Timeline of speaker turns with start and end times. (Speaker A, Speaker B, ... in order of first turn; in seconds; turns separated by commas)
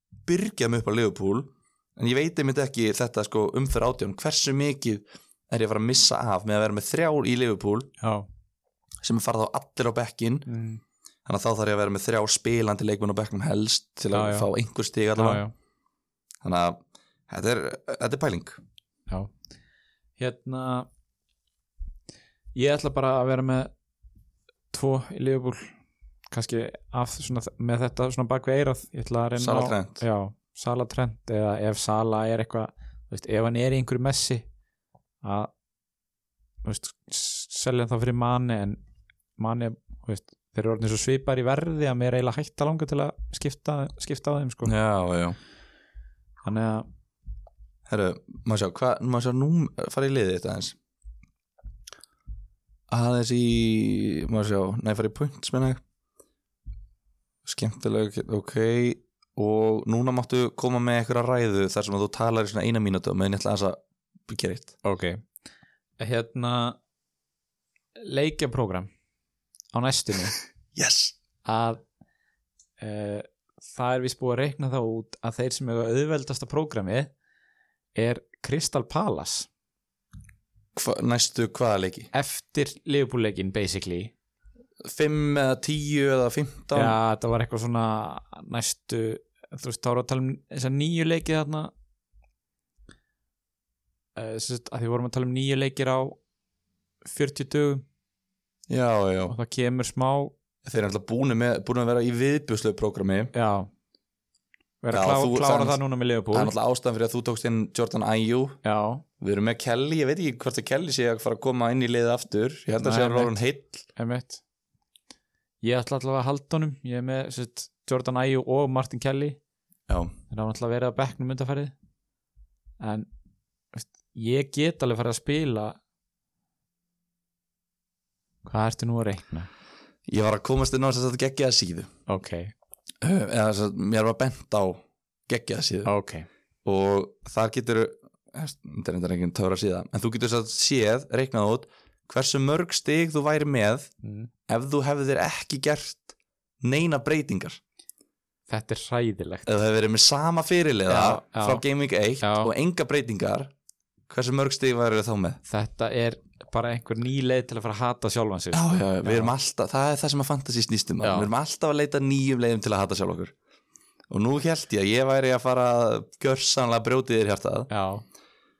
Speaker A: 0.2-7.9, Speaker B: 8.0-8.3, Speaker A: 9.0-10.5, Speaker B: 10.5-10.8, Speaker A: 11.2-15.4, Speaker B: 14.1-14.5, Speaker B: 15.1-15.5, Speaker A: 16.4-18.6, Speaker B: 20.2-20.9, Speaker B: 22.5-23.7, Speaker B: 24.7-25.7, Speaker B: 26.3-34.4, Speaker A: 29.4-30.0, Speaker B: 35.2-35.5, Speaker B: 36.6-38.8, Speaker B: 39.4-44.7, Speaker A: 44.6-45.4, Speaker B: 46.4-46.9, Speaker A: 47.9-50.8, Speaker A: 52.9-55.8, Speaker A: 57.4-64.7, Speaker B: 64.8-65.2, Speaker B: 66.0-66.8, Speaker B: 68.0-68.9, Speaker B: 69.7-70.4, Speaker A: 70.7-71.2, Speaker B: 71.4-71.8, Speaker B: 72.8-77.1, Speaker B: 77.9-79.5, Speaker A: 80.7-82.1, Speaker B: 82.1-84.1, Speaker A: 84.8-87.0, Speaker B: 86.7-91.7, Speaker B: 94.2-96.2, Speaker B: 97.0-97.8, Speaker A: 98.7-99.3, Speaker B: 99.3-100.3, Speaker A: 100.6-103.3, Speaker B: 103.3-103.7, Speaker B: 104.8-106.5, Speaker A: 104.9-105.8, Speaker A: 106.3-108.6, Speaker B: 108.6-109.0, Speaker A: 109.2-113.8, Speaker B: 112.8-113.3, Speaker B: 114.0-114.4, Speaker B: 115.6-119.4, Speaker A: 119.9-120.1, Speaker B: 120.3-121.7, Speaker B: 122.8-123.1, Speaker B: 123.7-125.8, Speaker B: 128.4-129.5, Speaker A: 130.1-131.9, Speaker B: 132.1-132.5, Speaker A: 133.0-135.9, Speaker B: 135.8-136.3, Speaker A: 136.6-143.9, Speaker B: 144.0-144.3, Speaker A: 144.5-146.1, Speaker A: 146.6-147.6, Speaker B: 148.5-149.5, Speaker A: 149.4-153.5, Speaker B: 150.9-151.6, Speaker B: 152.2-152.5, Speaker A: 154.1-155.4, Speaker B: 155.5-159.3, Speaker A: 158.5-163.3, Speaker B: 161.0-161.3, Speaker A: 164.1-167.7, Speaker B: 167.7-168.0